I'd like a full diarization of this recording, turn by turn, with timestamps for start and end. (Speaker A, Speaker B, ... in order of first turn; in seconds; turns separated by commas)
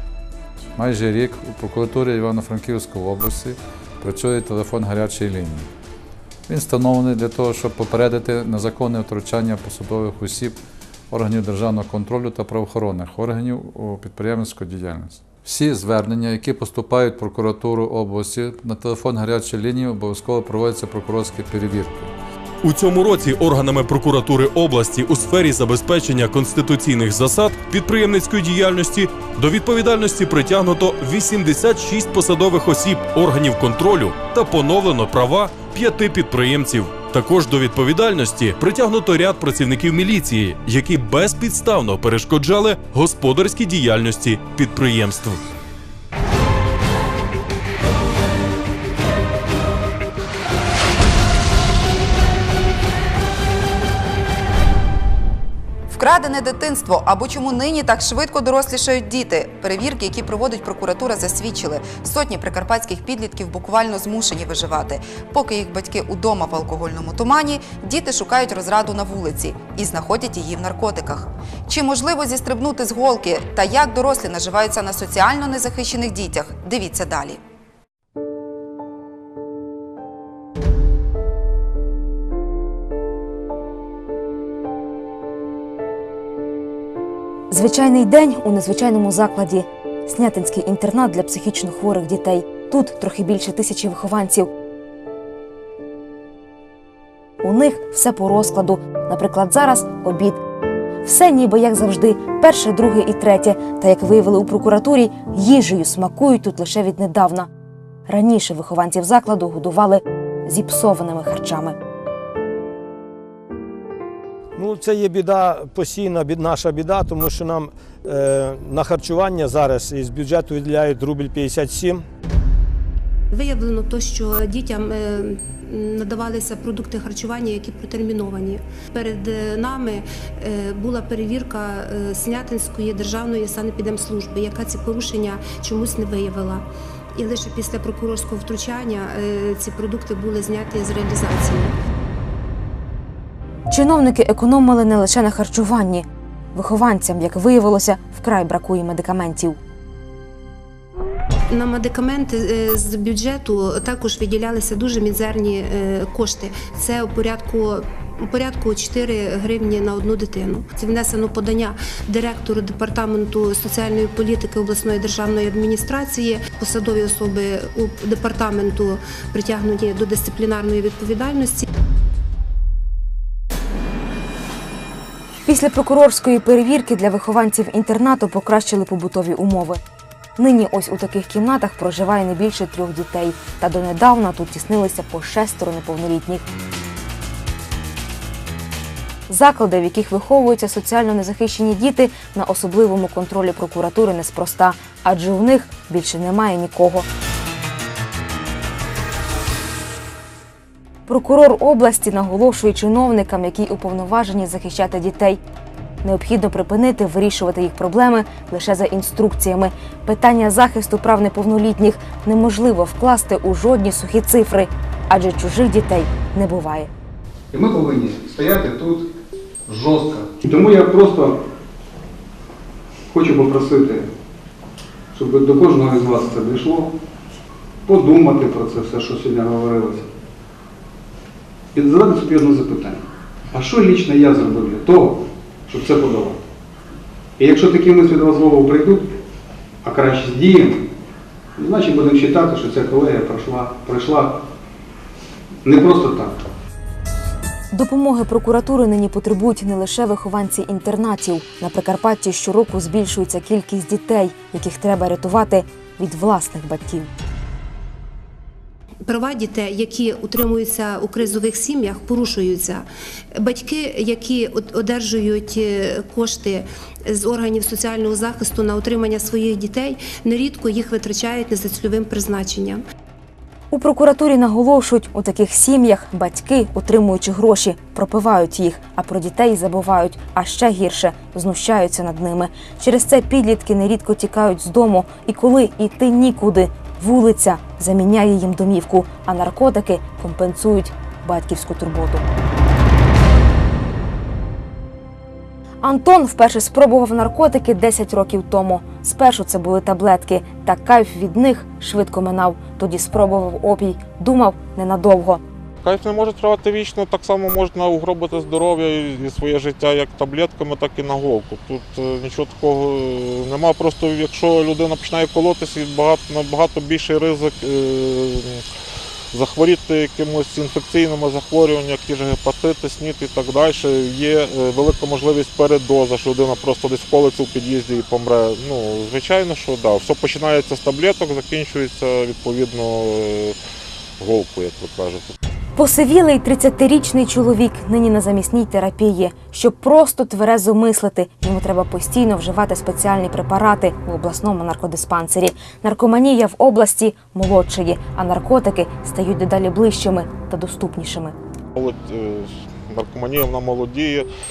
Speaker A: 0.8-5.7, Speaker A: 6.5-10.6, Speaker A: 11.1-22.1, Speaker B: 22.6-45.5, Speaker C: 55.9-77.4, Speaker D: 87.5-94.5, Speaker D: 97.4-100.4, Speaker D: 101.0-107.5, Speaker D: 108.1-111.8, Speaker E: 114.5-122.0, Speaker F: 123.3-141.8, Speaker D: 143.7-149.6, Speaker F: 151.5-171.6, Speaker D: 175.5-179.8, Speaker D: 180.4-186.4, Speaker D: 189.3-197.1, Speaker D: 201.1-205.4, Speaker D: 206.0-216.9, Speaker G: 217.5-219.1, Speaker G: 219.7-221.3, Speaker G: 223.1-224.1, Speaker G: 225.1-226.9, Speaker G: 227.9-230.1, Speaker G: 231.8-233.0, Speaker G: 233.5-236.4, Speaker G: 237.4-239.1, Speaker G: 239.8-240.8, Speaker G: 241.6-244.3, Speaker G: 245.6-246.3, Speaker D: 247.7-257.1, Speaker F: 259.1-262.9, Speaker F: 263.4-272.8, Speaker D: 273.7-292.2, Speaker D: 295.8-305.4, Speaker H: 305.9-318.3, Speaker F: 313.6-316.1, Speaker H: 319.4-333.5, Speaker F: 320.4-322.4, Speaker F: 323.1-324.3, Speaker F: 324.8-328.0, Speaker F: 328.9-329.5, Speaker F: 330.2-331.8, Speaker H: 334.2-335.3, Speaker D: 335.8-351.4, Speaker H: 351.8-354.2